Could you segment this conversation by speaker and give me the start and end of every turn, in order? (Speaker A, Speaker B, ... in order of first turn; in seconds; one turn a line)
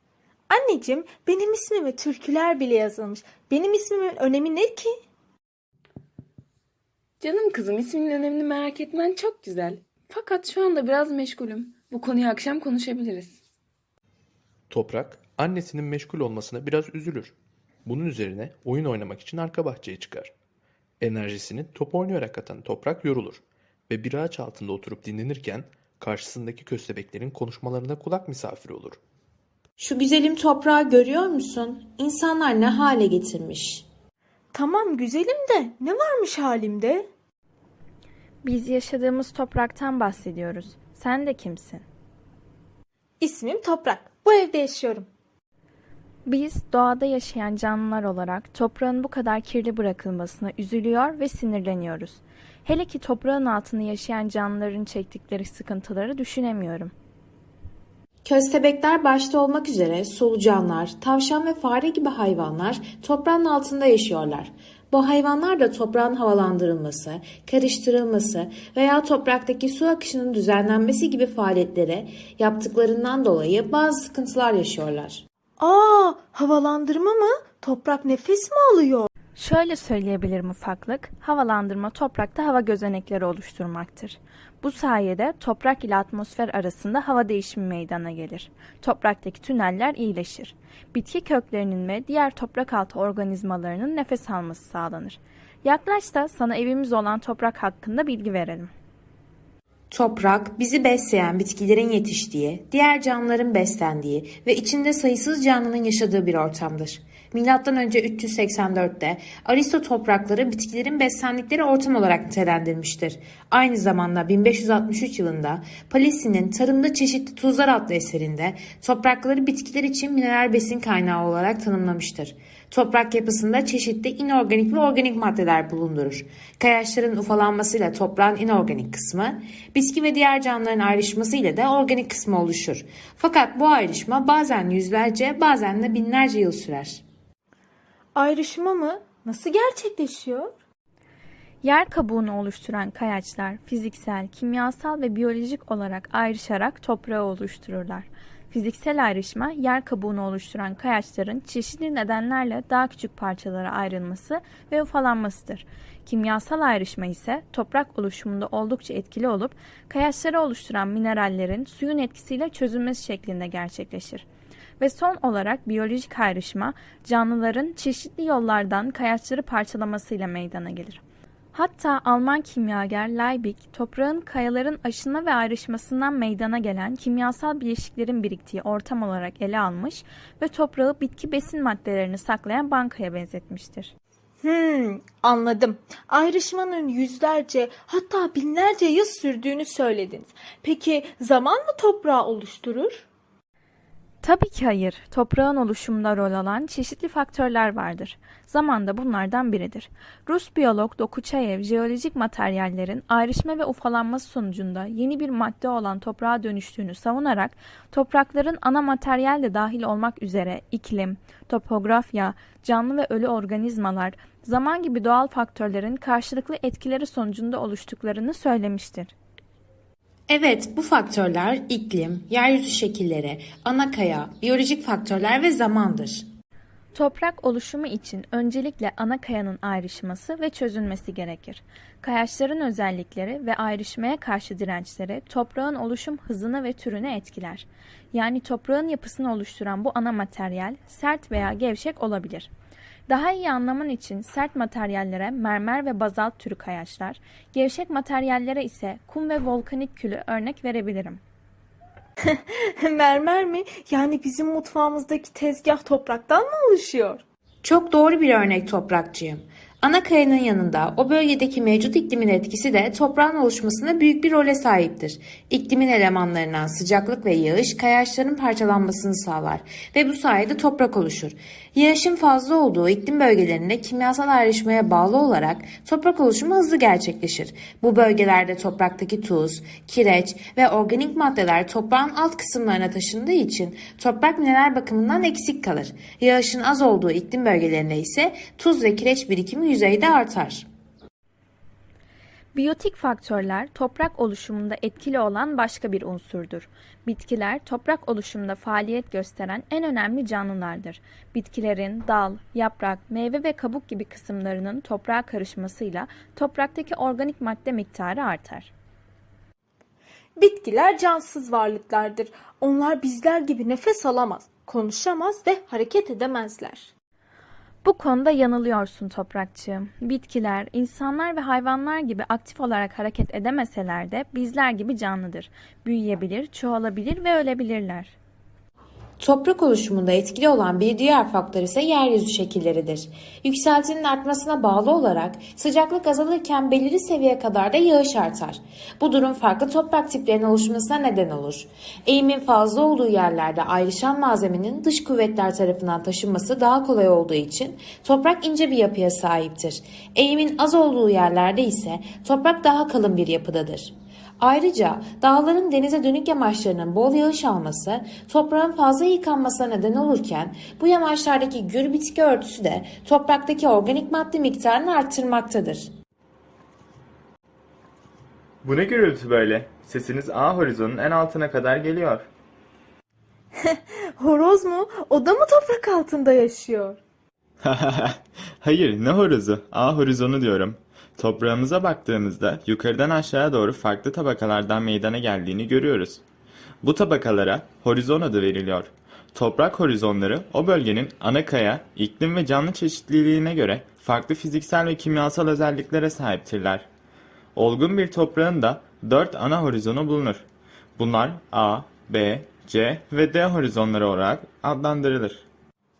Speaker A: 0.5-4.9
Speaker B: 7.2-13.3
Speaker C: 14.7-17.4
Speaker C: 17.9-20.3
Speaker C: 21.0-29.0
Speaker D: 29.8-33.9
Speaker A: 34.5-37.1
Speaker E: 38.4-41.9
Speaker A: 43.2-45.1
Speaker E: 46.3-56.9
Speaker D: 58.2-75.2
Speaker A: 75.6-79.1
Speaker E: 79.4-98.7
Speaker D: 99.9-137.0
Speaker A: 138.2-140.5
Speaker E: 141.6-164.2
Speaker E: 164.8-171.0
Speaker E: 171.5-183.9
Speaker A: 184.4-193.1
Speaker E: 194.2-219.1
Speaker D: 220.3-226.3
Speaker E: 226.9-242.5
Speaker E: 243.1-251.2
Speaker A: 252.2-257.2
Speaker D: 257.6-290.7
Speaker E: 292.5-308.7
Speaker A: 310.4-316.9
Speaker E: 317.8-328.1
Speaker D: 329.2-365.9
Speaker F: 368.6-372.3
Speaker A: 373.6-377.0
Speaker F: 377.6-386.2
Speaker F: 386.8-396.9
Speaker F: 397.6-400.5
Speaker F: 401.0-405.5